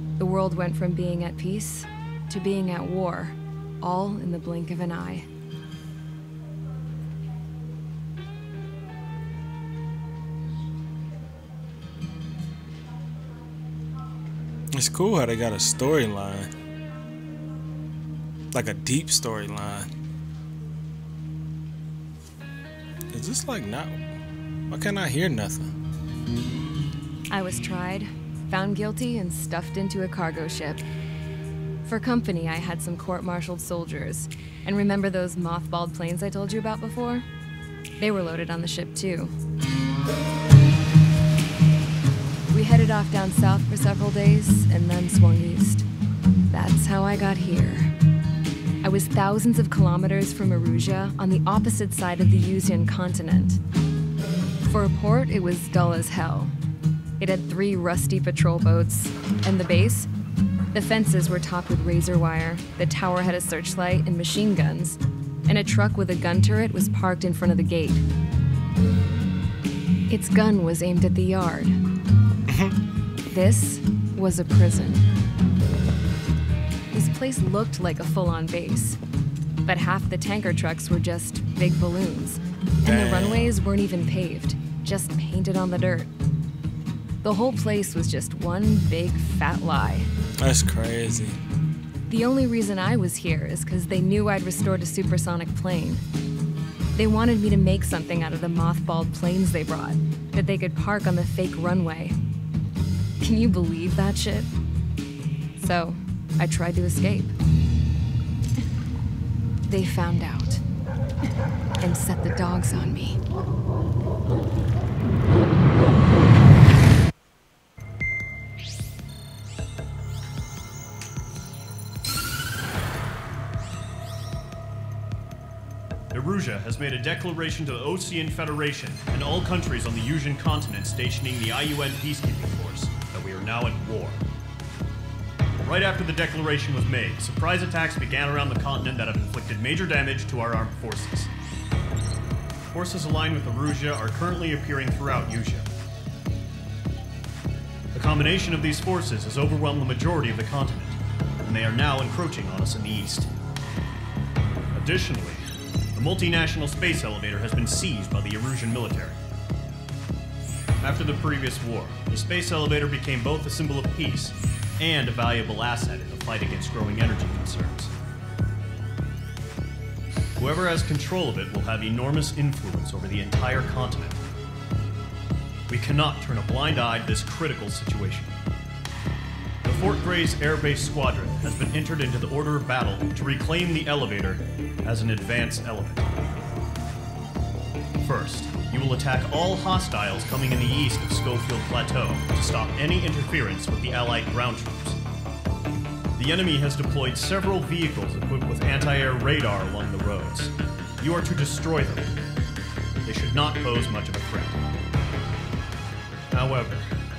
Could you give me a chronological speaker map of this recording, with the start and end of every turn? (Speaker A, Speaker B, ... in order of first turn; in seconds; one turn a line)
Speaker A: 0.2-5.3
Speaker B: 14.7-16.5
Speaker B: 18.5-19.9
Speaker B: 23.1-24.0
Speaker B: 24.7-25.7
Speaker A: 27.3-30.8
Speaker A: 31.9-37.2
Speaker A: 38.0-39.3
Speaker A: 42.5-45.9
Speaker A: 46.5-47.9
Speaker A: 48.8-53.6
Speaker A: 54.7-56.5
Speaker A: 57.2-60.1
Speaker A: 60.7-68.0
Speaker A: 70.1-71.8
Speaker B: 72.5-72.8
Speaker A: 73.3-75.0
Speaker A: 76.9-79.0
Speaker A: 79.7-86.1
Speaker B: 82.8-83.5
Speaker A: 87.2-90.1
Speaker B: 90.4-91.4
Speaker A: 92.1-96.0
Speaker A: 97.0-102.2
Speaker A: 103.2-104.5
Speaker A: 105.6-107.3
Speaker A: 109.7-110.6
Speaker A: 111.8-113.2
Speaker C: 126.1-134.2
Speaker C: 135.6-141.3
Speaker C: 142.7-145.7
Speaker C: 147.9-153.3
Speaker C: 154.7-155.4
Speaker C: 155.9-159.2
Speaker C: 160.8-167.9
Speaker C: 170.4-174.2
Speaker C: 175.7-178.3
Speaker C: 179.6-186.1
Speaker C: 188.0-195.0
Speaker C: 196.2-202.1
Speaker C: 203.1-204.6
Speaker C: 206.3-206.8